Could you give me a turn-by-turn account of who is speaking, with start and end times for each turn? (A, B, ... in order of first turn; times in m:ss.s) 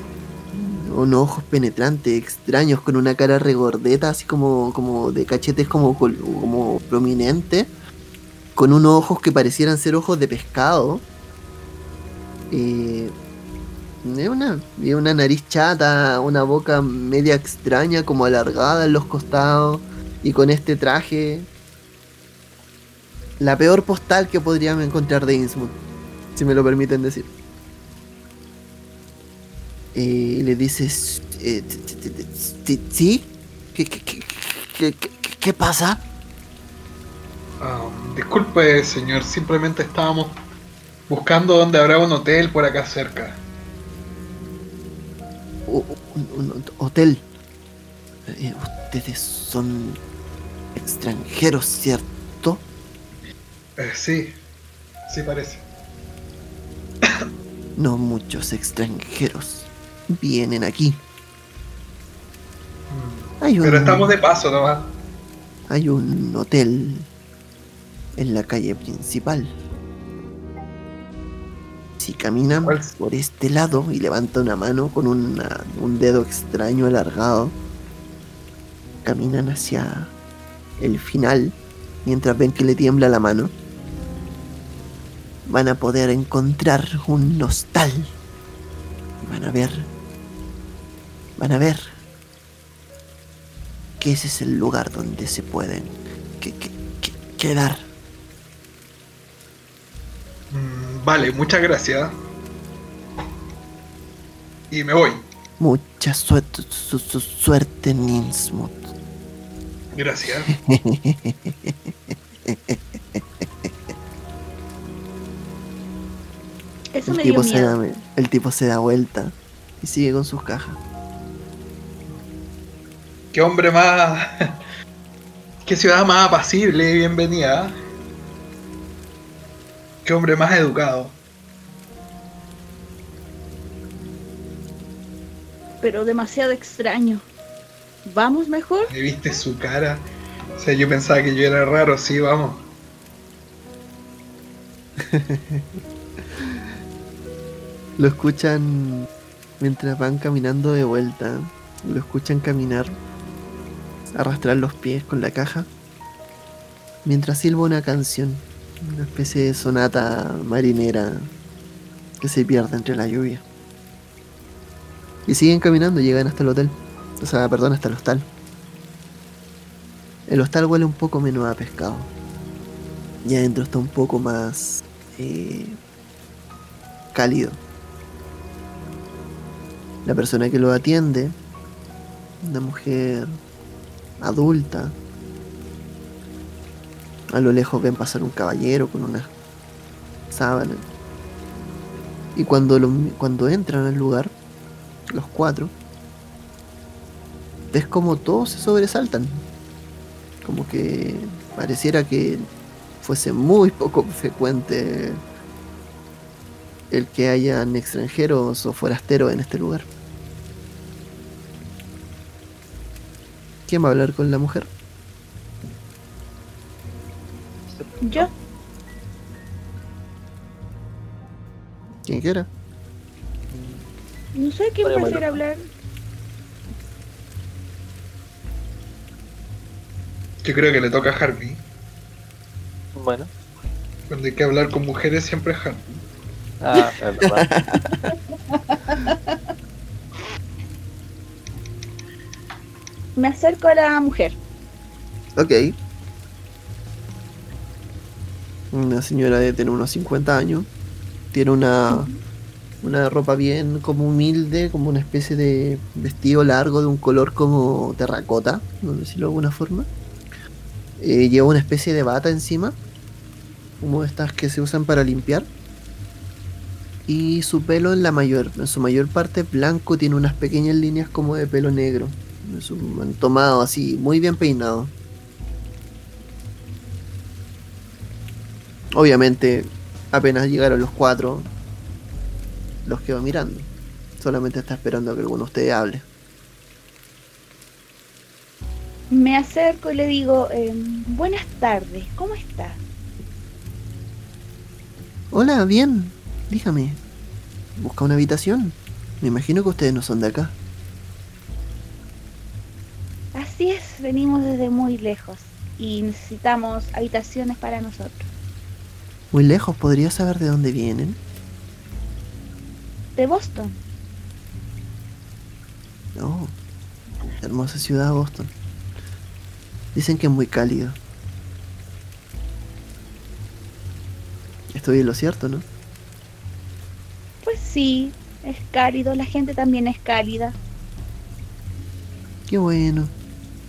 0:00.5-0:07.7 A
0:08.6-0:11.0 A
0:12.5-0:13.1 A
0:14.0-0:21.5 A
0:23.4-0:25.8 A
0:26.4-0:27.3 A
0:29.9-0:36.0 A
0:37.6-0:40.4 B
0:41.1-0:43.4 B
0:45.7-0:47.3 A
0:48.3-0:50.0 A
0:50.8-0:52.6 A
0:53.8-0:54.4 B
0:55.1-0:55.6 B
0:57.8-1:01.0 A
1:02.9-1:05.0 B
1:03.4-1:04.1 A
1:05.7-1:07.1 A
1:08.2-1:09.5 A
1:12.0-1:17.6 A
1:12.6-1:13.0 B
1:19.0-1:20.1 A
1:20.8-1:23.5 A
1:25.5-1:28.1 A
1:29.2-1:29.9 A
1:31.4-1:31.9 A
1:34.0-1:37.9 A
1:40.5-1:42.1 B
1:44.7-1:45.2 B
1:45.6-1:48.9 A
1:49.9-1:50.5 B
1:50.5-1:53.9 A
1:56.9-1:57.8 C
1:57.0-2:00.8 A
2:03.3-2:04.3 B
2:05.6-2:07.8 B
2:10.0-2:11.2 B
2:15.8-2:17.3 C
2:18.0-2:18.9 C
2:18.9-2:22.7 B
2:25.0-2:26.7 A
2:28.0-2:29.1 A
2:29.6-2:33.0 A
2:34.1-2:35.7 A
2:37.0-2:41.3 A
2:42.2-2:43.4 A
2:45.3-2:48.3 A
2:50.3-2:52.1 A
2:53.2-2:55.8 A
2:57.1-2:57.6 A
3:00.0-3:01.4 A
3:02.4-3:03.3 A
3:04.2-3:05.0 A
3:07.3-3:09.3 A
3:10.3-3:10.8 A
3:12.4-3:14.3 A
3:15.1-3:15.7 A
3:17.7-3:19.4 A
3:20.4-3:22.5 A
3:23.0-3:25.2 A
3:26.9-3:29.9 A
3:33.7-3:34.7 A
3:37.7-3:38.3 D
3:38.0-3:38.3 C
3:42.0-3:42.5 A
3:43.5-3:43.9 D
3:44.4-3:45.7 C
3:44.8-3:45.4 D
3:50.4-3:51.6 B
3:53.0-3:53.3 D
3:54.1-3:55.9 B
3:56.6-3:57.5 D
3:57.2-3:58.1 A
3:58.5-3:59.4 C
4:03.2-4:04.4 C
4:05.4-4:05.8 A
4:08.7-4:10.7 A
4:11.3-4:12.1 A
4:12.8-4:19.9 A
4:21.0-4:22.8 A
4:23.8-4:25.5 A
4:27.1-4:34.9 A
4:38.9-4:41.5 A
4:42.8-4:46.0 A
4:49.1-4:52.8 C
4:55.3-4:57.0 A
4:57.8-5:00.6 A
5:03.3-5:08.3 C
5:09.3-5:11.2 A
5:13.2-5:13.8 C
5:16.2-5:16.6 A
5:17.4-5:18.5 A
5:19.9-5:21.0 A
5:24.7-5:25.7 A
5:27.4-5:30.6 C
5:32.5-5:33.1 A